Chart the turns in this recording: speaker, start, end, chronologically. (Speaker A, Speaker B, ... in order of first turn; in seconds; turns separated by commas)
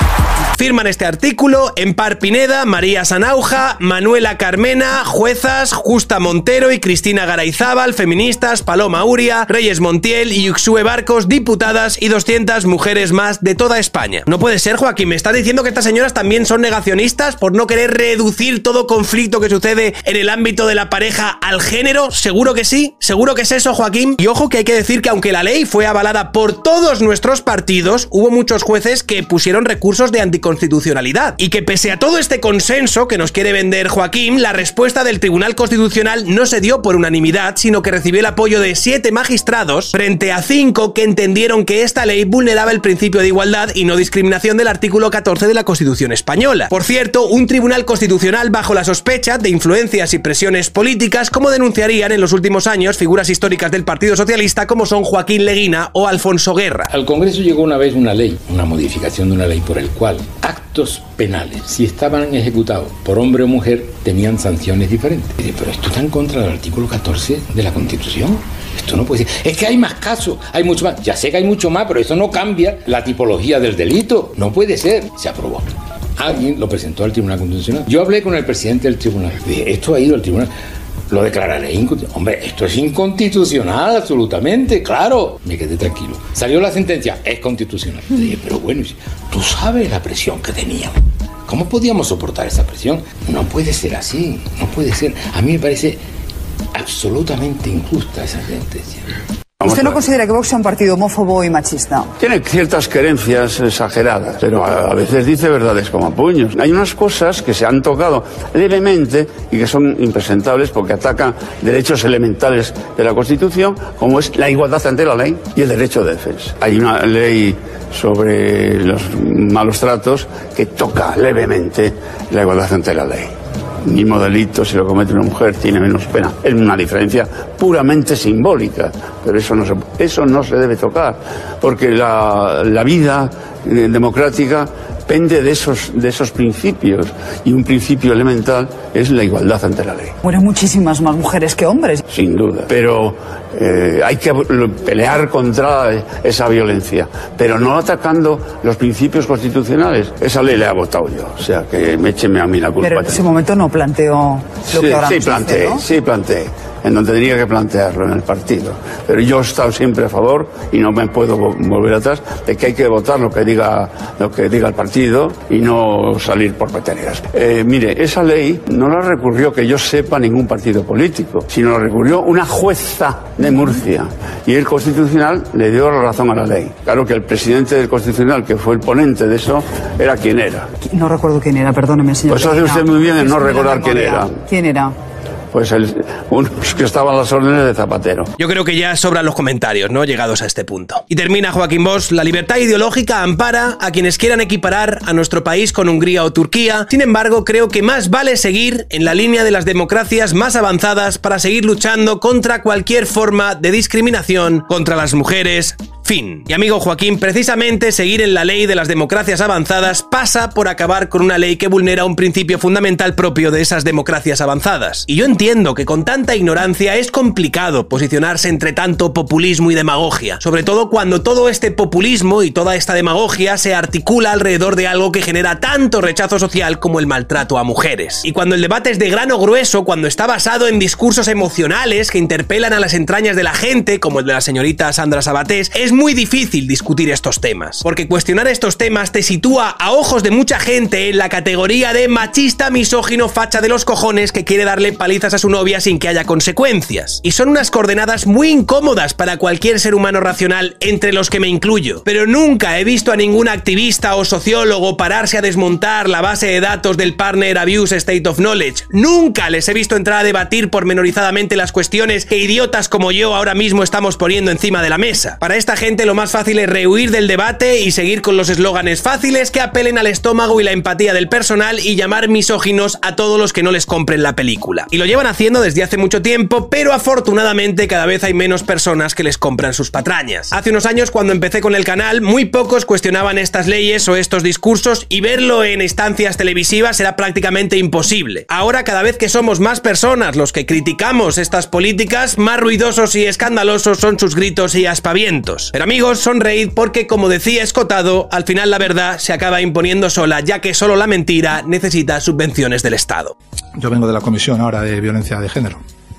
Speaker A: 0.5-56.9, Speaker B: 56.9-80.5, Speaker B: 81.1-96.0, Speaker B: 96.7-99.0, Speaker C: 99.6-100.0, Speaker D: 99.6-102.1, Speaker C: 102.2-123.3, Speaker C: 123.8-140.1, Speaker D: 140.2-142.0, Speaker C: 142.1-153.2, Speaker D: 152.8-155.8, Speaker C: 154.7-180.7, Speaker D: 180.8-184.9, Speaker C: 182.3-184.4, Speaker C: 185.5-188.3, Speaker A: 188.4-303.3, Speaker E: 303.8-305.8